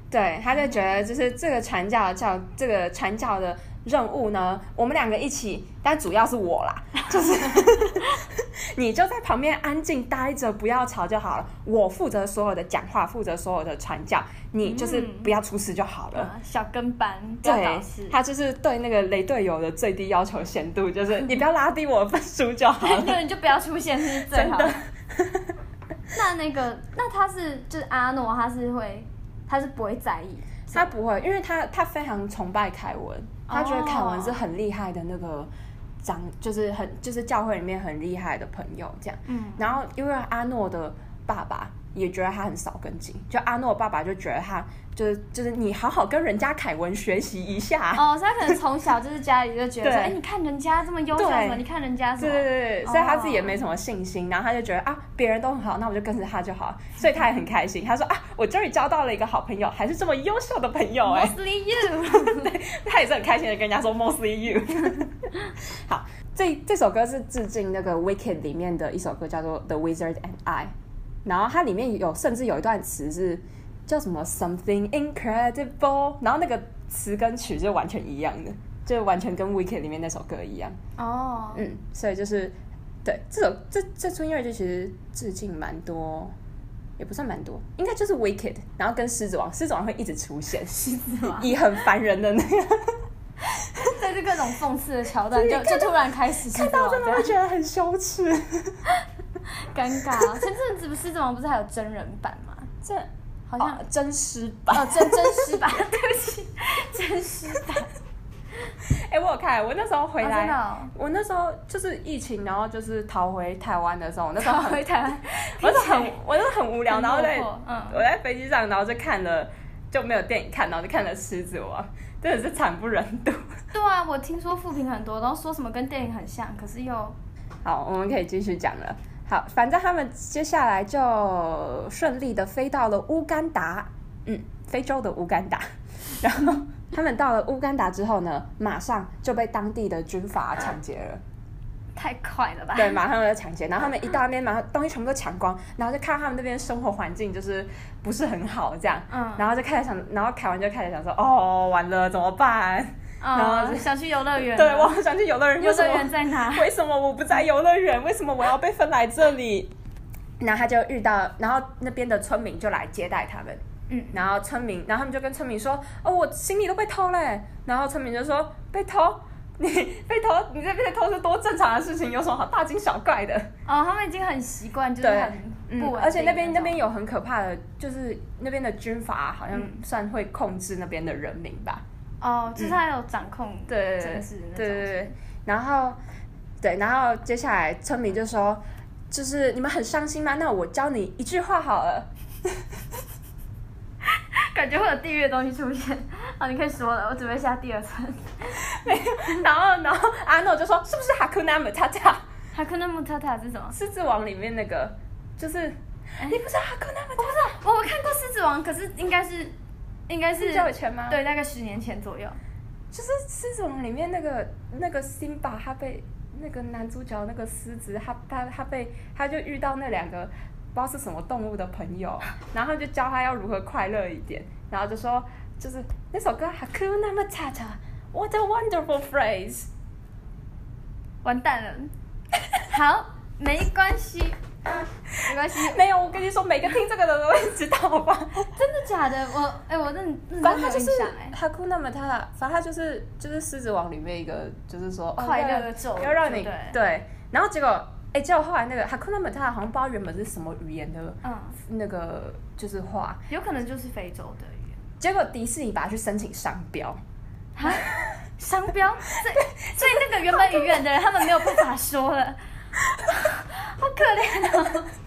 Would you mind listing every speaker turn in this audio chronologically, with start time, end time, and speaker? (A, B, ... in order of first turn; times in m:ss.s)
0:00.1-0:16.3 A
0:07.2-0:07.8 B
0:14.6-0:15.3 B
0:16.1-0:18.2 B
0:17.4-0:23.2 A
0:22.8-0:24.8 B
0:24.2-0:25.5 A
0:26.1-0:30.9 B
0:30.7-0:35.5 A
0:33.5-0:34.4 B
0:36.0-0:48.0 A
0:39.3-0:39.7 B
0:48.0-0:53.6 B
0:49.8-0:50.2 A
0:51.1-0:51.6 A
0:52.2-1:01.4 A
1:01.1-1:02.5 B
1:02.0-1:05.3 A
1:05.9-1:10.7 A
1:11.2-1:20.8 A
1:21.0-1:21.6 B
1:21.6-1:26.3 A
1:27.0-1:33.0 A
1:30.8-1:31.5 B
1:33.7-1:37.3 B
1:35.3-1:38.8 A
1:38.9-1:42.7 B
1:42.8-1:45.6 A
1:43.5-1:43.8 B
1:44.7-1:47.9 B
1:49.1-2:03.5 A
1:50.2-1:50.9 B
1:54.4-1:56.2 B
1:56.9-1:58.0 B
2:03.7-2:07.2 B
2:07.6-2:15.6 A
2:16.2-2:21.2 A
2:22.0-2:23.0 B
2:22.8-2:33.9 A
2:29.1-2:29.4 B
2:33.2-2:35.0 B
2:34.4-2:39.7 A
2:35.6-2:36.7 B
2:40.4-2:43.6 A
2:43.9-2:44.2 B
2:44.1-2:53.5 A
2:53.7-2:56.8 B
2:55.0-3:01.8 A
2:59.5-2:59.8 B
3:02.2-3:05.1 B
3:03.7-3:06.0 A
3:06.6-3:12.6 A
3:14.0-3:18.7 B
3:18.5-3:22.2 A
3:22.5-3:23.8 B
3:23.7-3:27.6 A
3:27.2-3:29.6 B
3:30.1-3:32.4 B
3:30.4-3:31.2 A
3:32.9-3:49.7 A
3:51.2-3:51.9 B
3:52.7-3:54.4 B
3:55.2-3:58.5 A
3:55.2-3:55.8 B
3:58.5-4:01.4 B
4:00.4-4:13.2 A
4:05.2-4:06.8 B
4:11.2-4:11.6 B
4:13.3-4:14.8 B
4:15.0-4:17.0 A
4:17.6-4:22.4 B
4:17.7-4:18.1 A
4:19.1-4:20.7 A
4:23.0-4:24.9 B